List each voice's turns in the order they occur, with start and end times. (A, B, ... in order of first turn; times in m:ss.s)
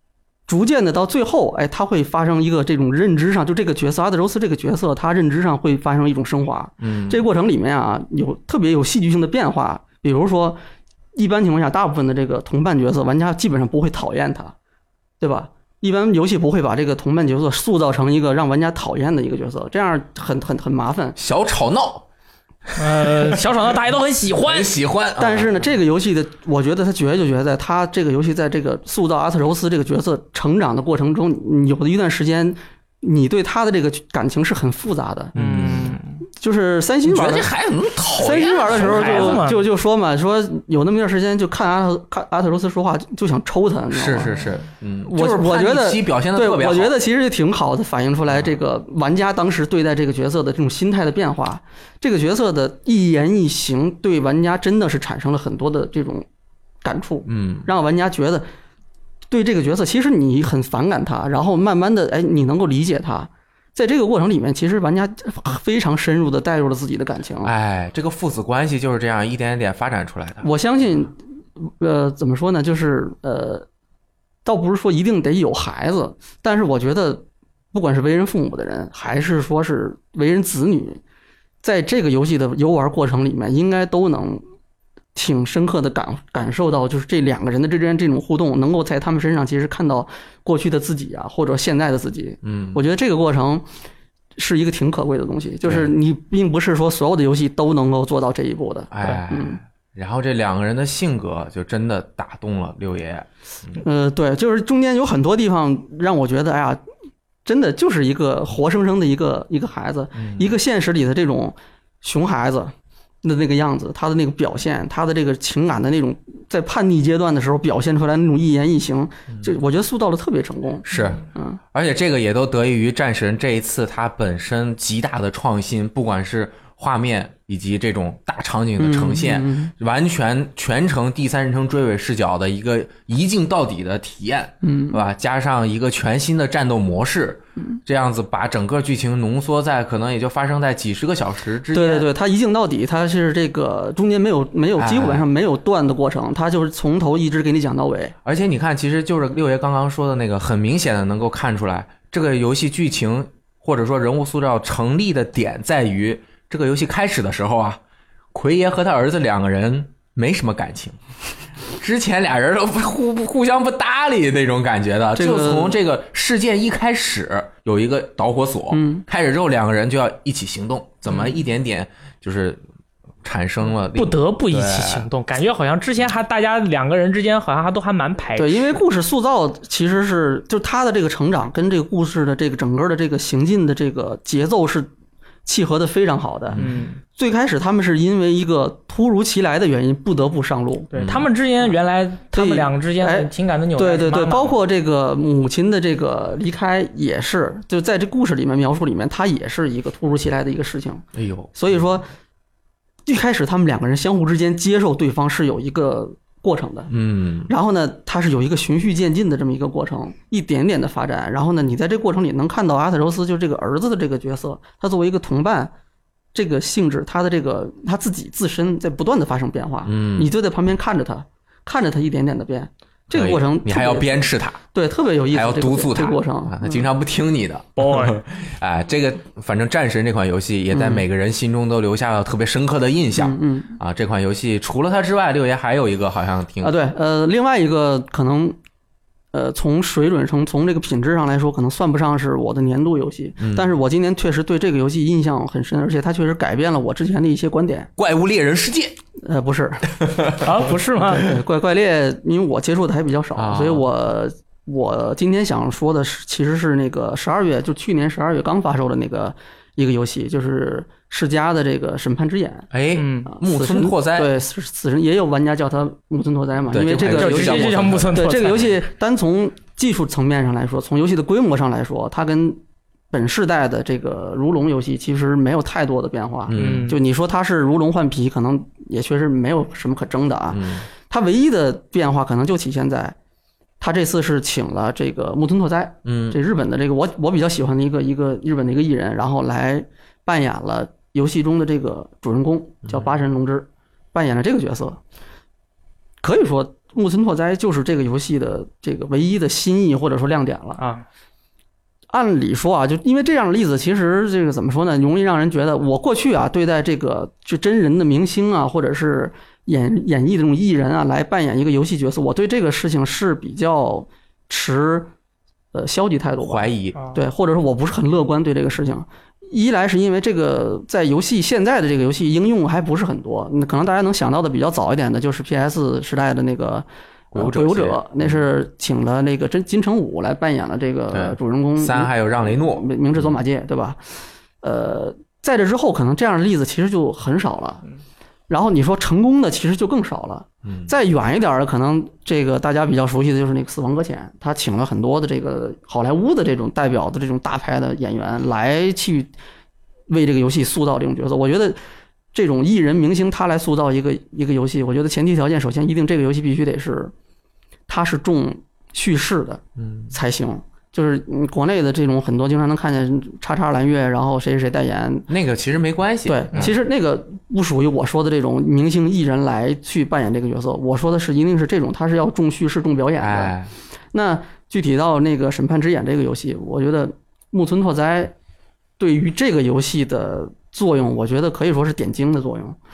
0:00.5-0:10.6 A
0:06.8-0:07.2 B
0:11.1-0:14.6 A
0:15.2-0:21.2 A
0:21.2-0:22.1 B
0:22.8-0:24.8 C
0:22.8-0:23.4 B
0:24.4-0:25.6 B
0:25.2-0:35.3 A
0:35.4-0:36.0 B
0:35.4-0:36.2 C
0:36.4-0:37.5 A
0:37.0-0:39.5 B
0:38.2-0:44.3 A
0:38.7-0:39.6 C
0:43.9-0:47.0 B
0:45.1-0:56.3 A
0:56.8-0:58.5 A
0:57.3-0:57.7 B
0:59.3-1:07.5 A
1:07.4-1:10.5 B
1:10.4-1:13.7 A
1:14.4-1:21.0 A
1:21.6-1:24.4 A
1:25.2-1:33.7 A
1:32.4-1:32.8 B
1:34.4-1:39.6 A
1:35.6-1:35.9 B
1:38.9-1:43.8 B
1:43.8-1:46.8 A
1:47.4-2:01.6 A
1:50.2-1:50.5 B
2:00.9-2:22.1 B
2:08.8-2:09.7 A
2:14.6-2:15.0 A
2:21.7-2:28.1 A
2:24.8-2:25.2 B
2:28.2-2:37.8 B
2:38.3-2:41.0 B
2:41.8-2:52.6 B
2:45.2-2:45.8 A
2:48.7-2:49.0 A
2:53.2-2:55.1 B
2:54.0-2:58.8 C
2:58.4-3:04.9 A
3:05.5-3:06.6 A
3:06.5-3:06.8 B
3:06.6-3:07.0 C
3:07.2-3:10.9 A
3:10.9-3:14.6 C
3:10.9-3:11.3 B
3:12.3-3:22.1 A
3:21.2-3:21.8 B
3:23.1-3:26.9 A
3:26.9-3:27.5 B
3:27.5-3:35.7 A
3:36.3-3:46.9 A
3:39.8-3:40.3 B
3:43.1-3:44.6 B
3:45.3-3:56.8 B
3:47.8-3:48.2 C
3:50.7-3:51.0 A
3:53.2-3:53.8 A
3:56.6-3:58.6 A
3:59.3-4:07.9 A
4:03.4-4:03.7 B
4:08.0-4:09.0 B
4:09.2-4:22.7 A
4:10.0-4:10.3 B
4:10.4-4:11.3 C
4:13.4-4:13.9 B
4:22.7-4:24.3 B
4:23.0-4:23.3 C
4:23.3-4:32.6 A
4:26.7-4:28.4 B
4:27.0-4:28.7 C
4:33.1-4:43.2 A
4:36.5-4:37.0 B
4:36.6-4:37.0 C
4:40.5-4:40.9 B
4:43.8-4:55.0 A
4:46.0-4:46.4 B
4:52.9-4:53.2 B
4:56.2-5:00.8 A
5:00.8-5:01.0 C
5:02.1-5:15.1 A
5:15.7-5:34.0 A
5:16.4-5:17.0 B
5:27.3-5:28.4 B
5:31.1-5:33.4 B
5:34.6-5:37.8 A
5:38.5-5:49.3 A
5:40.7-5:40.9 B
5:50.1-5:51.8 A
5:52.3-5:57.1 A
5:57.9-6:05.3 A
5:59.8-6:00.1 B
6:05.3-6:06.8 B
6:06.3-6:13.6 A
6:13.2-6:13.7 B
6:14.1-6:18.3 A
6:19.0-6:22.8 A